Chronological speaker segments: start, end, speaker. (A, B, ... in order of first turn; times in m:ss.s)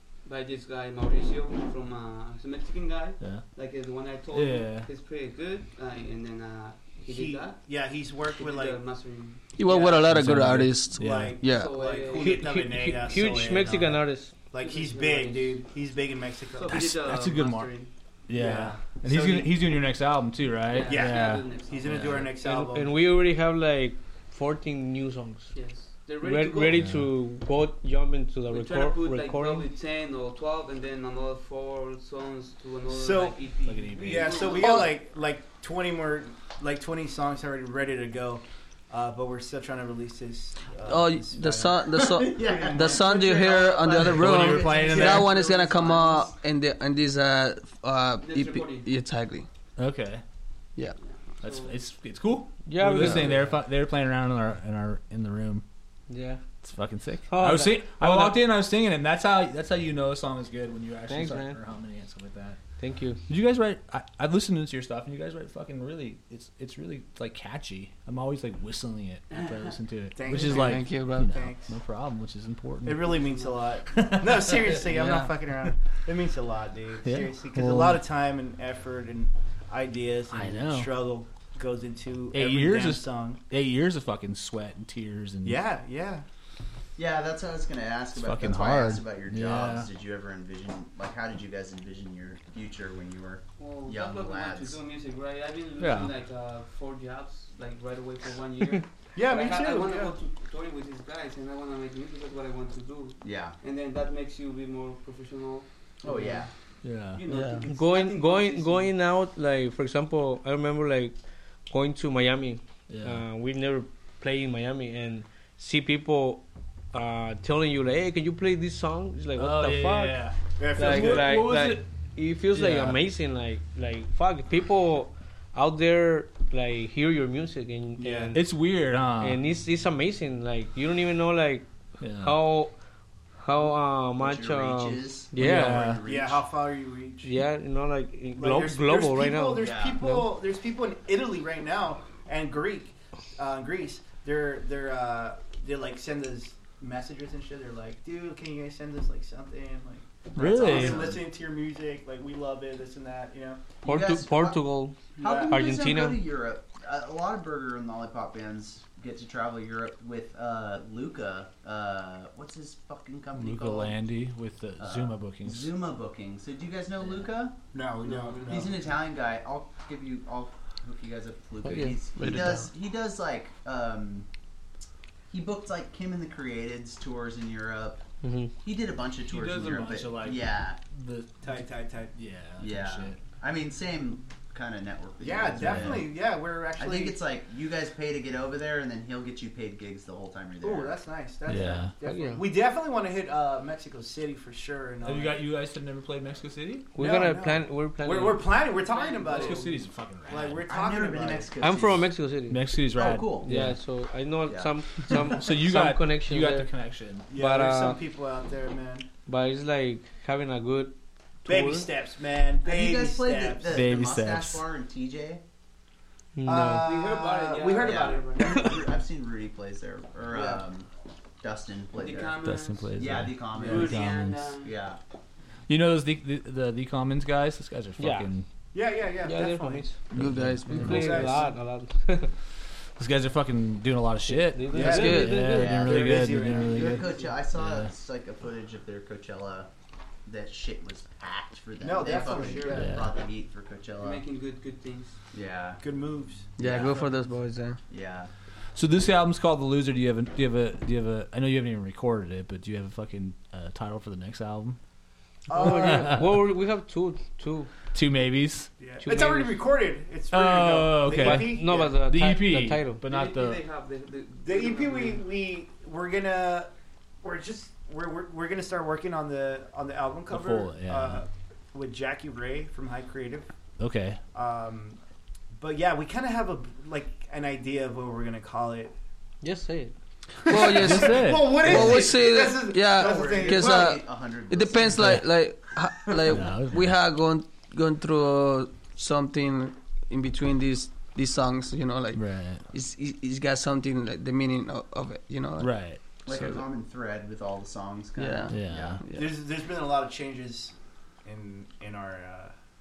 0:00.2-0:07.6 A
0:03.2-0:03.4 B
0:04.3-0:04.9 B
0:07.0-0:08.8 C
0:08.3-0:09.9 A
0:09.6-0:11.7 D
0:09.6-0:10.0 C
0:10.0-0:11.4 B
0:11.0-0:17.0 C
0:11.4-0:12.5 A
0:12.1-0:14.3 E
0:13.2-0:14.0 B
0:14.6-0:15.6 A
0:16.5-0:17.9 A
0:16.7-0:17.8 B
0:18.3-0:22.3 B
0:18.3-0:19.5 C
0:20.6-0:22.1 A
0:20.8-0:22.9 C
0:22.0-0:25.5 E
0:25.5-0:26.8 A
0:26.2-0:29.7 E
0:26.7-0:27.1 B
0:28.5-0:34.9 A
0:32.9-0:43.5 C
0:33.6-0:34.5 B
0:40.8-0:49.5 D
0:42.0-0:46.3 F
0:43.9-0:45.3 B
0:44.3-0:45.2 C
0:48.2-0:48.9 A
0:49.8-0:50.2 B
0:51.0-0:51.8 A
0:51.4-0:55.6 B
0:52.6-0:53.5 E
0:56.1-0:56.4 E
0:56.6-1:02.6 B
0:57.3-0:58.4 E
1:01.1-1:01.6 E
1:02.8-1:03.2 E
1:03.3-1:13.1 B
1:09.3-1:09.7 A
1:10.2-1:11.7 C
1:10.3-1:11.3 D
1:12.8-1:23.4 C
1:13.2-1:13.5 A
1:13.9-1:15.2 B
1:14.9-1:15.3 D
1:17.0-1:17.7 B
1:17.6-1:18.0 D
1:20.3-1:20.9 B
1:22.3-1:25.6 B
1:25.4-1:26.2 C
1:27.0-1:34.8 F
1:28.2-1:29.9 B
1:33.6-1:46.5 A
1:35.8-1:36.1 B
1:39.2-1:40.1 C
1:43.2-1:43.6 F
1:46.0-1:46.5 F
1:46.8-1:47.2 B
1:47.1-1:48.9 A
1:47.3-1:47.6 D
1:47.6-1:51.2 E
1:51.7-2:08.5 E
1:52.9-1:53.2 B
1:59.3-2:01.8 B
2:00.6-2:01.4 C
2:02.5-2:03.0 B
2:08.0-2:08.3 C
2:08.3-2:09.4 B
2:09.2-2:11.6 E
2:12.0-2:12.4 B
2:12.2-2:12.7 E
2:13.4-2:15.9 E
2:14.2-2:16.4 F
2:15.4-2:16.0 B
2:16.0-2:17.3 C
2:17.2-2:20.3 E
2:18.4-2:33.6 C
2:19.6-2:20.0 F
2:30.4-2:31.2 B
2:30.4-2:31.1 F
2:33.8-2:34.6 F
2:33.8-2:36.2 E
2:35.2-2:44.0 F
2:35.2-2:35.6 C
2:43.4-2:45.7 B
2:44.8-2:47.6 F
2:47.7-2:48.8 C
2:48.0-2:48.7 A
2:48.5-2:54.3 F
2:51.6-2:51.9 E
2:51.7-2:52.7 D
2:55.3-2:58.0 F
2:58.2-2:58.5 E
2:58.6-3:00.8 F
2:59.3-3:01.6 B
3:01.4-3:02.1 C
3:02.1-3:03.2 B
3:02.6-3:06.1 F
3:05.2-3:07.2 C
3:05.5-3:06.1 B
3:06.8-3:11.0 F
3:10.6-3:15.4 C
3:11.5-3:11.9 B
3:12.0-3:12.4 E
3:15.0-3:16.9 B
3:16.9-3:18.5 E
3:17.0-3:21.5 C
3:18.8-3:19.8 A
3:19.3-3:20.6 B
3:20.7-3:22.1 F
3:21.6-3:22.6 E
3:22.5-3:23.8 B
3:22.9-3:23.5 F
3:23.4-3:26.7 E
3:24.5-3:24.7 F
3:25.1-3:27.3 B
3:27.3-3:29.1 C
3:27.3-3:28.0 E
3:29.3-3:31.9 E
3:31.4-3:33.8 C
3:32.6-3:35.4 F
3:33.7-3:34.6 B
3:36.4-3:36.8 E
3:36.4-3:38.8 C
3:36.7-3:38.8 A
3:37.8-3:40.9 F
3:41.4-3:42.4 F
3:41.9-3:43.0 A
3:42.4-3:44.5 B
3:43.0-3:45.0 F
3:43.6-3:44.7 A
3:45.7-3:48.4 B
3:48.0-3:48.3 E
3:48.7-3:49.9 C
3:49.2-3:50.0 E
3:50.1-3:51.3 B
3:50.1-3:51.3 D
3:50.7-3:52.3 E
3:50.7-3:51.5 C
3:53.0-3:57.9 B
3:54.2-3:55.8 E
3:54.7-3:57.2 C
3:54.8-3:55.5 D
3:55.5-3:59.7 F
4:00.2-4:04.2 F
4:01.8-4:03.1 C
4:02.0-4:02.7 A
4:02.7-4:03.1 B
4:04.0-4:05.2 A
4:05.3-4:05.8 F
4:05.8-4:06.5 C
4:06.6-4:07.8 D
4:06.6-4:07.0 F
4:07.9-4:08.3 F
4:08.7-4:14.8 B
4:15.5-4:16.1 C
4:15.5-4:17.7 E
4:15.5-4:16.4 B
4:17.9-4:18.7 B
4:18.8-4:21.9 C
4:19.0-4:19.6 E
4:20.3-4:23.6 B
4:21.1-4:23.0 E
4:23.0-4:25.2 A
4:24.4-4:26.7 C
4:27.2-4:33.5 C
4:30.3-4:31.2 B
4:33.8-4:34.2 B
4:34.3-4:35.0 C
4:35.6-4:38.9 C
4:39.4-4:39.9 E
4:40.4-4:44.0 C
4:40.5-4:55.8 D
4:40.6-4:42.1 B
4:42.9-4:45.2 F
4:45.0-4:45.2 B
4:46.1-4:46.4 F
4:46.3-4:46.9 B
4:52.1-4:52.6 B
4:55.6-4:56.6 B
4:56.2-4:59.0 F
4:58.2-4:59.3 D
4:58.5-4:59.0 B
4:59.1-5:00.7 C
5:01.2-5:02.5 C